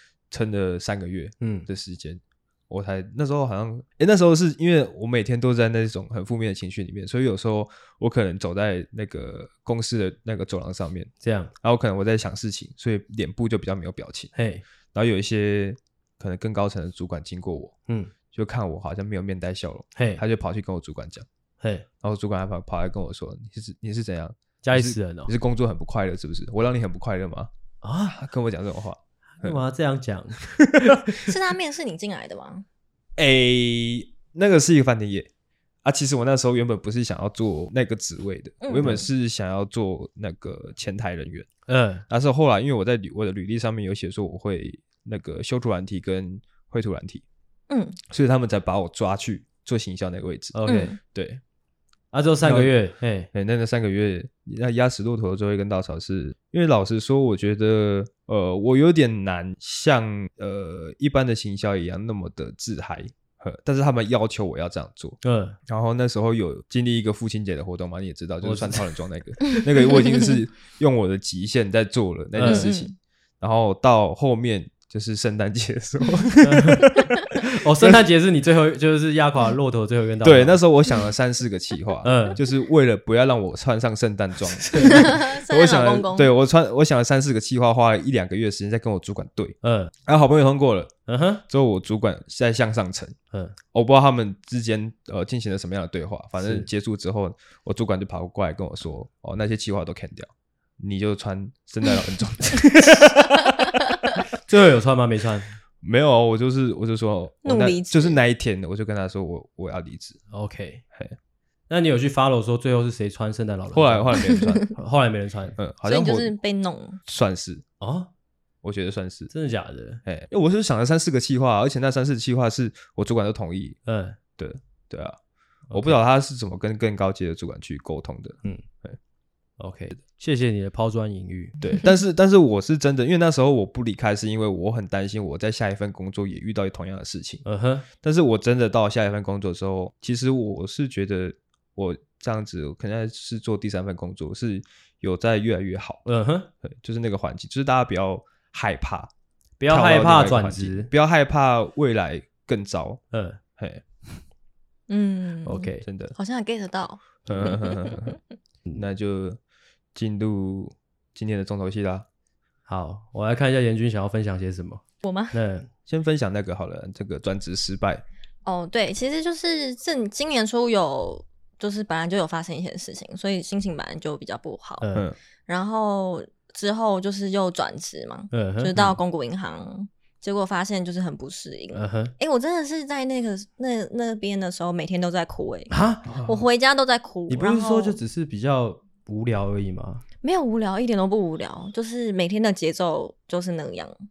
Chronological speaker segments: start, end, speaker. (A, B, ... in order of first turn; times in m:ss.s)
0:00.3-0:14.3 A
0:01.4-0:01.7 B
0:11.2-0:11.5 B
0:14.3-0:14.6 B
0:14.9-0:17.8 A
0:18.3-0:21.3 A
0:20.0-0:20.2 B
0:21.6-0:21.8 B
0:22.0-0:27.5 A
0:24.6-0:25.3 B
0:27.8-0:28.2 B
0:28.1-0:29.6 A
0:29.4-0:31.1 B
0:30.6-0:31.2 A
0:31.2-0:32.6 C
0:33.2-0:35.3 A
0:35.8-0:41.5 A
0:38.6-0:39.0 C
0:41.7-0:42.0 B
0:42.1-0:47.2 A
0:47.7-0:48.0 C
0:48.1-0:51.4 A
0:50.5-0:51.0 B
0:50.6-0:51.0 C
0:52.1-0:53.3 B
0:52.4-0:52.7 A
0:53.3-1:18.0 A
1:05.2-1:05.6 B
1:08.4-1:08.9 B
1:09.5-1:10.3 C
1:12.4-1:12.7 B
1:12.4-1:12.9 C
1:16.4-1:20.6 B
1:20.2-1:31.0 A
1:22.0-1:22.4 B
1:24.6-1:25.1 B
1:24.8-1:26.3 C
1:29.6-1:29.9 B
1:31.1-1:31.4 B
1:31.5-1:33.2 A
1:33.7-1:43.8 A
1:36.4-1:36.7 B
1:44.5-1:45.5 B
1:45.8-1:50.2 A
1:47.4-1:48.2 C
1:50.3-1:50.8 B
1:51.7-1:54.2 B
1:53.7-1:54.7 A
1:54.2-1:54.6 C
1:54.7-1:55.6 B
1:55.6-1:56.3 A
1:55.8-1:57.0 C
1:57.0-1:57.6 A
1:57.8-1:58.1 B
1:58.6-1:59.3 A
1:59.3-2:00.0 B
2:00.0-2:03.8 A
2:03.8-2:04.2 B
2:04.4-2:05.2 A
2:05.7-2:06.0 B
2:05.7-2:09.0 A
2:09.6-2:11.6 B
2:11.6-2:26.1 A
2:17.4-2:17.8 B
2:26.0-2:26.5 B
2:26.6-2:29.1 A
2:29.6-2:30.9 B
2:29.7-2:33.0 A
2:33.1-2:33.4 B
2:33.6-2:33.8 A
2:34.9-2:38.1 C
2:35.4-2:35.8 B
2:35.8-2:36.1 A
2:37.3-2:37.6 B
2:37.3-2:38.2 A
2:38.7-2:39.4 A
2:39.9-2:42.0 A
2:42.7-2:45.7 B
2:45.0-2:45.4 C
2:45.9-2:48.0 A
2:48.4-2:54.8 C
2:54.8-2:55.1 B
2:55.5-3:05.7 C
2:58.3-2:58.7 B
3:01.7-3:02.1 B
3:05.7-3:06.1 B
3:06.0-3:06.4 A
3:06.2-3:08.0 C
3:07.3-3:10.0 B
3:10.2-3:13.9 C